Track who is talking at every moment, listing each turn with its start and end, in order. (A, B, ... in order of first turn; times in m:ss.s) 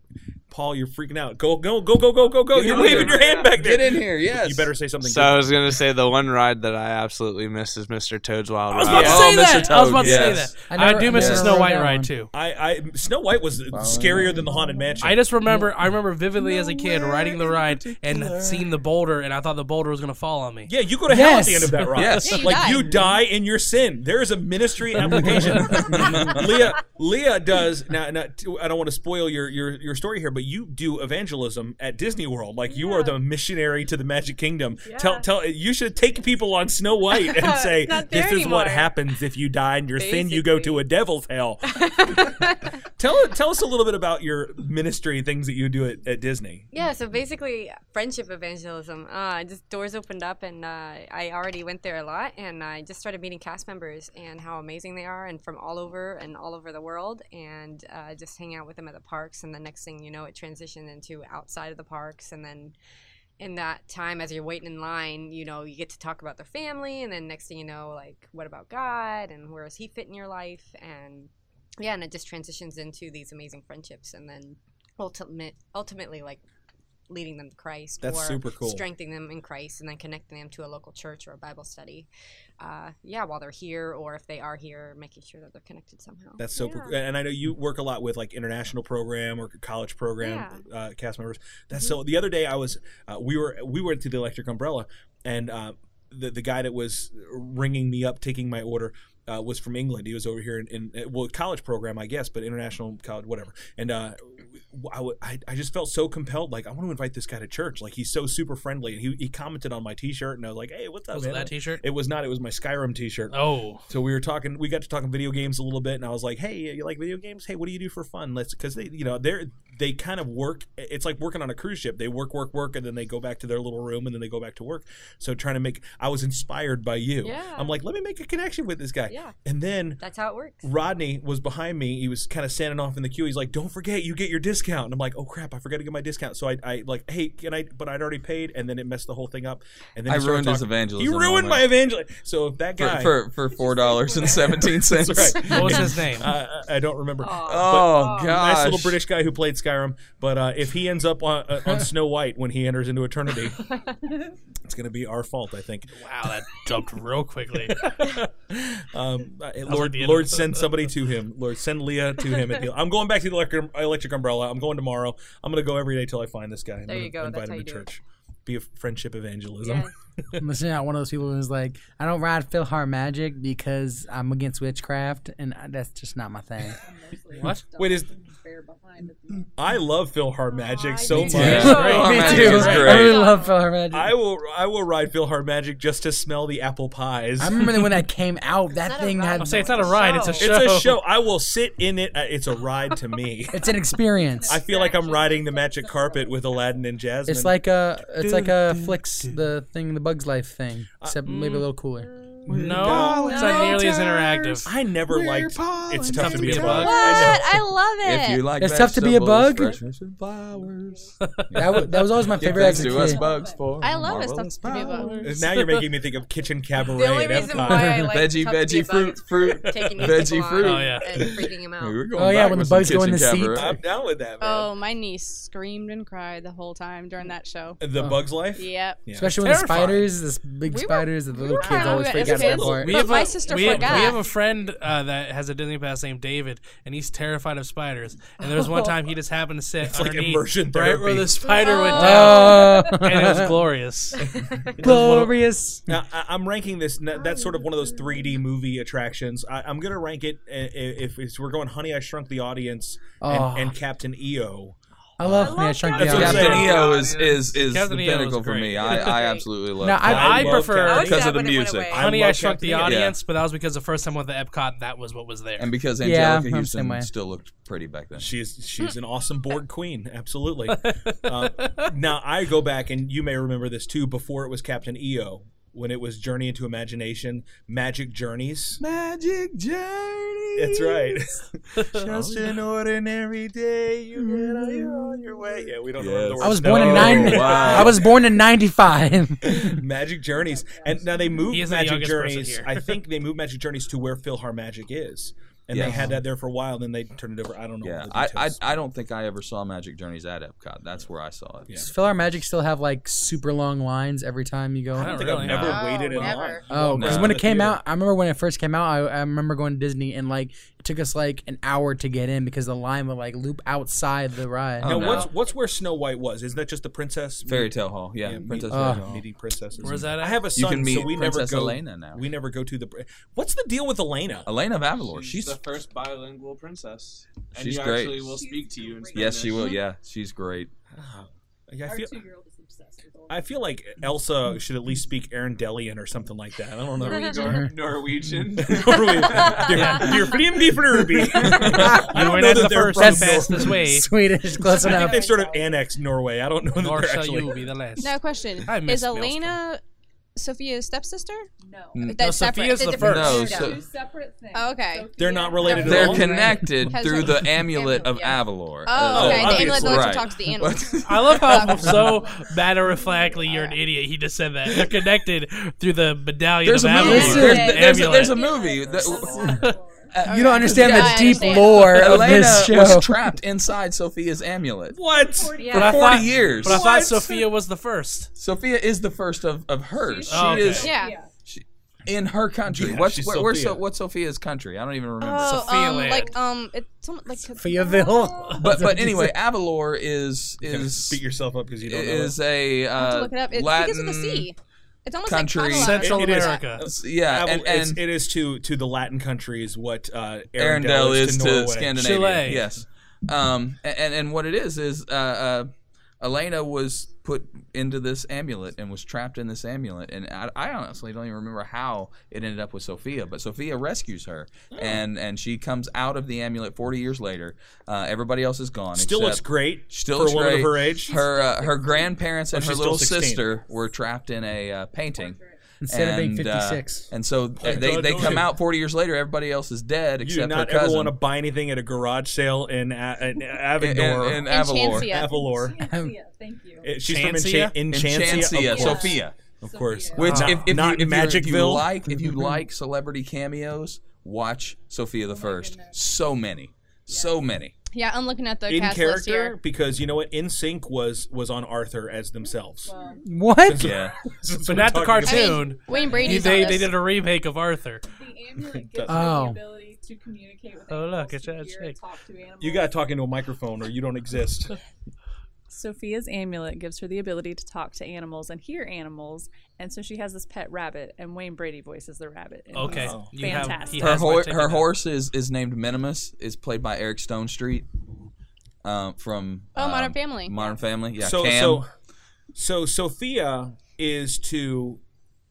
0:00.5-0:05.6 A
0:02.5-0:04.7 B
0:05.0-0:09.3 C
0:08.7-0:12.3 D
0:08.8-0:10.4 A
0:08.8-0:10.6 B
0:10.7-0:12.1 E
0:11.1-0:11.6 B
0:12.3-0:15.2 A
0:13.7-0:14.6 B
0:15.0-0:20.7 D
0:16.4-0:18.7 B
0:20.7-0:42.4 A
0:21.1-0:21.9 E
0:22.0-0:22.6 B
0:22.2-0:23.1 F
0:22.4-0:22.7 G
0:25.1-0:25.6 E
0:25.4-0:26.8 B
0:32.7-0:33.2 G
0:34.9-0:35.2 G
0:37.1-0:39.0 G
0:40.0-0:40.9 G
0:41.7-0:42.6 G
0:43.0-0:46.7 A
0:46.7-1:02.8 G
1:03.4-1:16.4 G
1:17.1-1:22.1 G
1:18.0-1:18.8 A
1:22.6-1:27.0 G
1:26.4-1:53.4 A
1:30.2-1:30.6 G
1:51.1-1:51.8 D
1:53.3-1:53.8 D
1:53.9-2:10.0 A
2:07.2-2:07.8 G
2:09.1-2:09.4 G
2:10.0-2:10.6 G
2:10.6-2:23.2 A
2:20.1-2:21.8 B
2:22.8-2:25.8 B
2:23.5-2:24.9 H
2:24.2-2:33.7 A
2:25.5-2:26.3 D
2:27.2-2:27.9 G
2:27.4-2:29.0 B
2:34.6-2:36.0 A
2:36.0-2:37.9 D
2:37.7-2:49.9 A
2:39.7-2:40.7 D
2:46.8-2:47.9 G
2:49.6-2:49.9 G
2:50.4-2:56.8 E
2:56.8-2:59.5 H
2:57.4-2:57.6 D
2:57.8-2:58.1 A
2:59.5-3:03.2 A
3:00.9-3:03.5 G
3:01.1-3:03.2 B
3:01.2-3:04.1 E
3:01.5-3:02.1 D
3:03.2-3:03.5 H
3:03.9-3:07.8 A
3:07.4-3:09.9 E
3:08.7-3:10.5 G
3:09.4-3:11.0 D
3:10.4-3:13.7 A
3:13.5-3:14.6 E
3:14.2-3:16.8 H
3:14.5-3:17.6 A
3:17.3-3:22.1 E
3:18.2-3:19.4 A
3:21.3-3:21.6 D
3:22.5-3:27.6 A
3:22.5-3:24.7 D
3:22.7-3:23.1 B
3:23.3-3:23.8 G
3:23.3-3:24.1 F
3:25.1-3:26.8 B
3:26.0-3:27.3 D
3:26.6-3:28.5 F
3:28.0-3:35.0 B
3:28.6-3:29.8 E
3:31.5-3:33.2 E
3:32.4-3:33.8 H
3:33.8-3:35.3 F
3:34.9-3:35.3 H
3:35.2-3:38.2 A
3:36.8-3:42.0 G
3:38.1-3:43.8 B
3:39.9-3:40.3 A
3:40.6-3:41.1 D
3:41.1-3:41.5 A
3:42.2-3:43.8 E
3:43.6-3:44.7 A
3:44.4-3:47.8 F
3:47.8-3:50.0 A
3:48.6-3:49.0 F
3:49.2-3:53.0 E
3:50.7-3:54.2 F
3:51.7-3:54.1 A
3:52.8-4:04.3 D
3:59.8-4:01.5 A
4:01.6-4:02.5 G
4:01.7-4:02.0 F
4:01.9-4:03.5 E
4:04.2-4:05.3 A
4:04.3-4:04.8 G
4:04.8-4:05.9 E
4:04.8-4:05.3 D
4:05.9-4:14.8 A
4:13.2-4:13.7 E
4:15.2-4:16.7 E
4:15.3-4:16.9 G
4:15.9-4:16.9 A
4:16.0-4:22.0 B
4:16.2-4:17.4 I
4:17.5-4:19.3 D
4:19.1-4:19.4 G
4:19.8-4:20.5 E
4:20.0-4:21.4 A
4:20.0-4:21.2 D
4:20.8-4:22.1 G
4:21.9-4:23.0 A
4:21.9-4:25.7 D
4:22.8-4:23.2 B
4:25.6-4:28.3 B
4:26.0-4:27.1 E
4:28.2-4:38.8 A
4:38.8-4:41.3 B
4:40.6-4:48.2 A
4:42.0-4:42.5 B
4:46.0-4:48.1 B
4:46.4-4:49.8 E
4:49.4-4:58.6 A
4:50.4-4:51.4 H
4:51.5-4:52.9 D
4:55.7-4:56.2 B
4:55.8-4:56.2 E
4:57.8-5:02.4 B
5:01.8-5:05.8 E
5:05.0-5:05.8 D
5:05.0-5:07.8 A
5:05.5-5:06.7 G
5:06.7-5:15.1 E
5:06.9-5:07.4 B
5:14.8-5:15.3 B
5:14.8-5:24.5 A
5:17.4-5:19.2 B
5:18.7-5:19.0 E
5:19.8-5:20.5 D
5:20.5-5:22.3 B
5:24.4-5:25.6 B
5:25.0-5:29.7 I
5:27.5-5:28.4 B
5:28.3-5:29.7 H
5:29.1-5:30.7 B
5:30.9-5:32.2 A
5:31.8-5:33.5 H
5:33.3-5:37.6 A
5:37.0-5:40.3 I
5:38.6-5:43.9 A
5:41.4-5:45.2 E
5:41.8-5:44.1 D
5:44.6-5:47.7 A
5:44.8-5:45.7 G
5:46.8-5:49.6 D
5:48.0-5:49.8 F
5:50.4-5:51.5 F
5:51.6-5:52.0 H
5:51.9-5:52.4 B
5:52.0-5:53.7 F
5:52.2-5:53.5 D
5:52.9-5:53.8 B
5:53.0-5:53.7 G
5:53.2-5:56.6 H
5:54.5-5:56.1 F
5:55.1-5:56.5 A
5:55.7-6:01.9 B
5:56.7-5:57.9 F
5:57.7-5:58.4 G
5:58.8-6:02.0 F
5:59.1-6:00.2 A
6:01.0-6:08.4 D
6:02.0-6:03.4 H
6:06.6-6:09.5 B
6:07.0-6:07.8 E
6:07.1-6:09.0 G
6:08.3-6:10.1 H
6:09.1-6:09.6 I
6:10.1-6:15.0 B
6:10.2-6:11.9 F
6:10.3-6:13.3 E
6:14.9-6:17.5 A
6:15.0-6:16.5 H
6:15.6-6:15.9 G
6:15.7-6:18.3 D
6:15.7-6:16.9 B
6:18.4-6:25.9 B
6:19.9-6:21.3 H
6:20.3-6:20.9 D
6:20.8-6:21.2 F
6:22.7-6:23.8 A
6:25.2-6:28.5 F
6:25.4-6:26.3 D
6:27.6-6:29.4 E
6:28.6-6:31.2 B
6:30.6-6:32.4 A
6:31.8-6:34.5 B
6:32.9-6:36.7 F
6:35.2-6:36.2 B
6:35.7-6:36.8 D
6:36.0-6:42.0 A
6:36.8-6:38.0 B
6:40.6-7:11.2 B
6:42.0-6:42.6 D
6:54.7-6:55.0 A
6:58.9-7:01.2 A
7:01.0-7:02.2 H
7:02.5-7:03.5 A
7:05.1-7:05.6 H
7:05.8-7:07.1 E
7:07.6-7:08.5 A
7:10.2-7:14.5 A
7:13.8-7:15.2 B
7:14.4-7:15.4 F
7:15.0-7:15.8 A
7:15.2-7:16.9 H
7:15.8-7:16.1 E
7:16.8-7:21.9 A
7:17.1-7:17.8 D
7:17.9-7:19.4 B
7:18.2-7:20.6 H
7:20.1-7:27.7 B
7:25.3-7:26.0 H
7:27.1-7:27.5 H
7:27.9-7:29.6 F
7:28.7-7:32.9 A
7:32.8-7:33.5 H
7:33.2-7:34.0 E
7:33.6-7:35.7 A
7:33.8-7:34.2 B
7:34.7-7:38.0 D
7:35.2-7:37.0 F
7:35.9-7:36.8 H
7:38.1-7:43.0 H
7:38.6-7:39.4 A
7:39.1-7:39.6 E
7:40.9-7:42.0 D
7:42.6-7:44.8 A
7:45.7-7:54.2 H
7:52.7-7:54.9 D
7:52.9-7:53.6 A
7:54.0-7:57.9 B
7:58.8-8:01.8 B
7:59.8-8:00.6 F
8:01.2-8:01.9 A
8:02.5-8:05.0 A